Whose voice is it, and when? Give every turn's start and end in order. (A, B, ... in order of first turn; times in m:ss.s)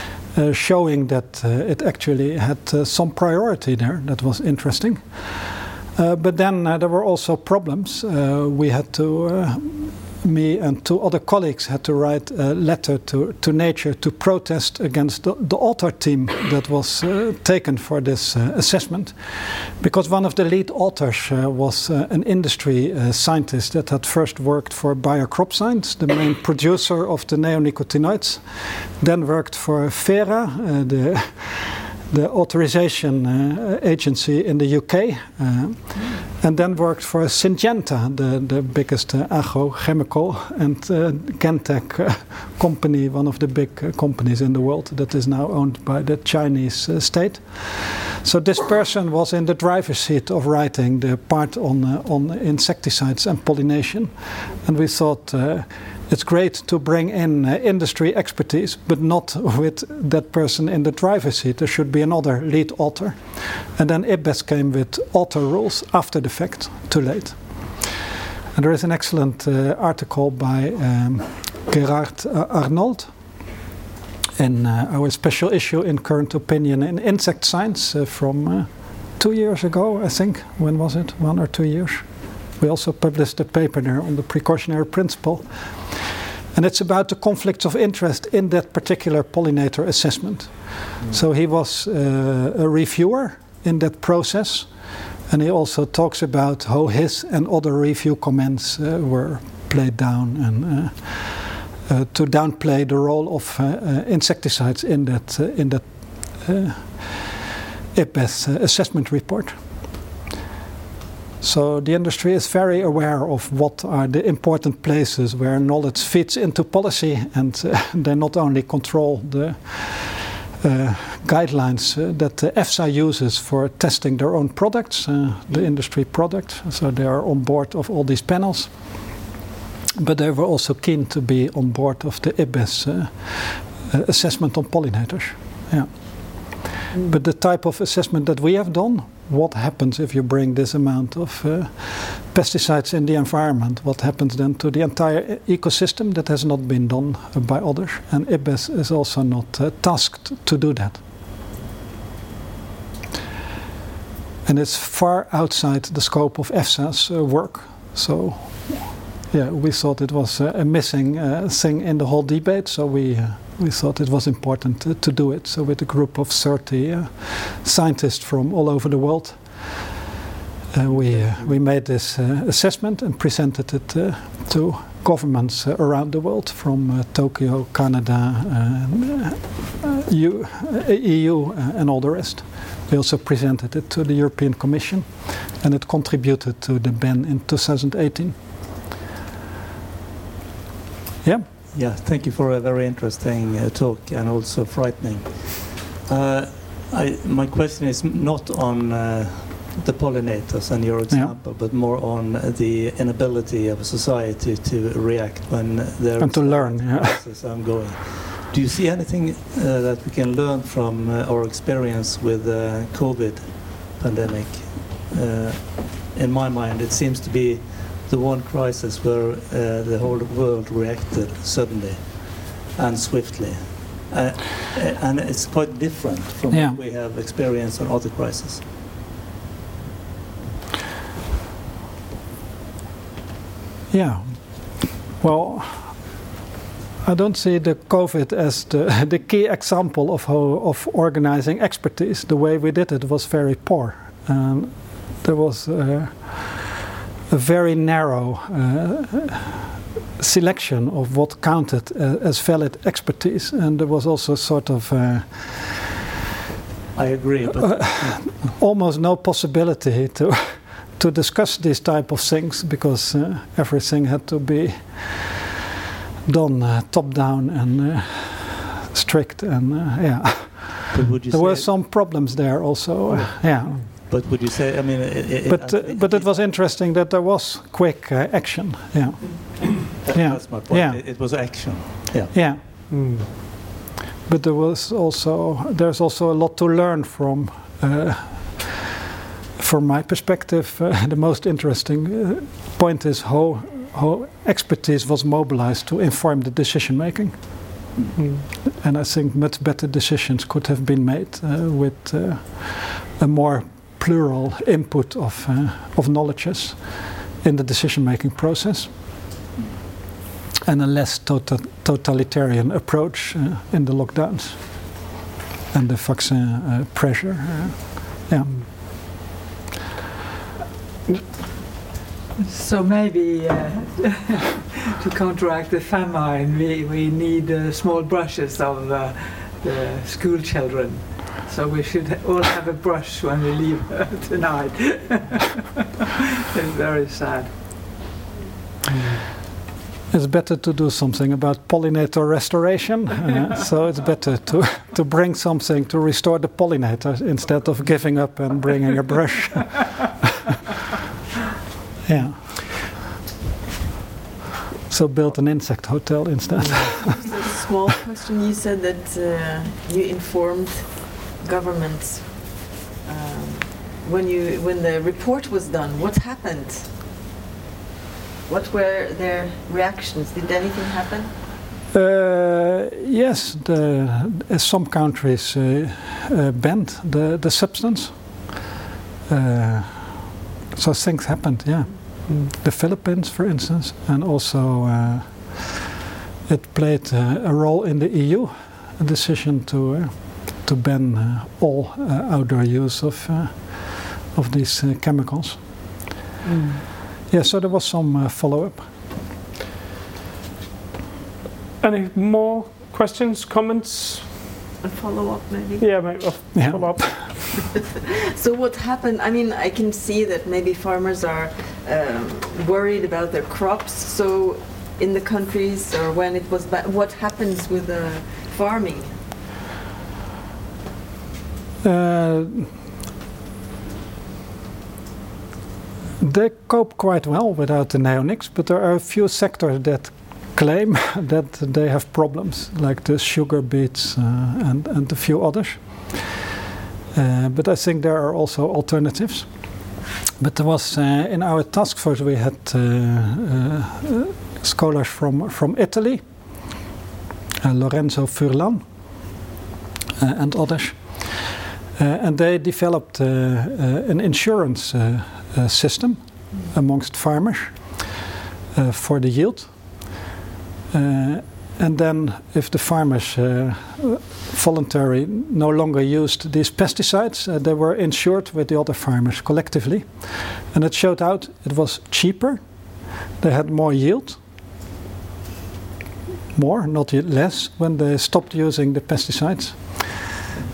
0:00.3-1:07.9 A
1:08.5-1:13.1 A
1:14.4-1:47.4 A
1:47.9-1:49.6 A
1:51.4-2:09.1 A
2:10.0-2:31.0 A
2:34.4-2:49.9 A
2:50.7-3:08.4 A
2:50.8-2:51.6 B
3:11.7-3:48.6 B
3:26.2-3:27.2 A
3:46.5-3:46.8 A
3:53.9-3:56.2 A
3:57.0-4:06.7 A
4:07.3-4:09.6 A
4:10.2-4:15.9 A
4:16.9-4:18.6 B
4:17.8-4:25.4 A
4:26.2-4:33.8 A
4:30.9-4:32.2 B
4:33.1-4:36.4 B
4:35.5-4:41.6 A
4:40.0-4:42.3 B
4:42.3-4:43.3 A
4:42.9-4:43.3 C
4:44.3-4:48.9 A
4:49.6-4:57.8 A
4:58.7-5:08.9 A
5:10.7-5:15.0 A
5:15.7-5:18.9 A
5:22.4-5:35.6 D
5:36.5-5:37.8 D
5:38.9-5:39.2 C
5:40.1-5:50.2 A
5:52.0-5:52.6 A
5:54.9-5:57.5 A
5:56.6-5:56.9 C
5:57.1-6:07.0 E
6:08.5-6:11.3 E
6:11.9-6:18.5 A
6:19.3-6:25.8 A
6:26.5-6:36.0 A
6:36.4-6:36.8 C
6:37.3-6:38.9 A
6:41.8-6:44.5 C
6:44.8-6:46.3 E
6:45.8-6:47.6 C
6:46.5-6:47.3 A
6:47.7-6:59.2 E
7:01.8-7:02.8 A
7:06.2-7:16.3 A
7:17.1-7:19.9 A
7:20.4-7:26.5 A
7:27.6-7:29.3 A
7:30.2-7:38.1 A
7:38.7-7:40.2 A
7:40.9-7:54.4 A
7:56.5-8:00.3 A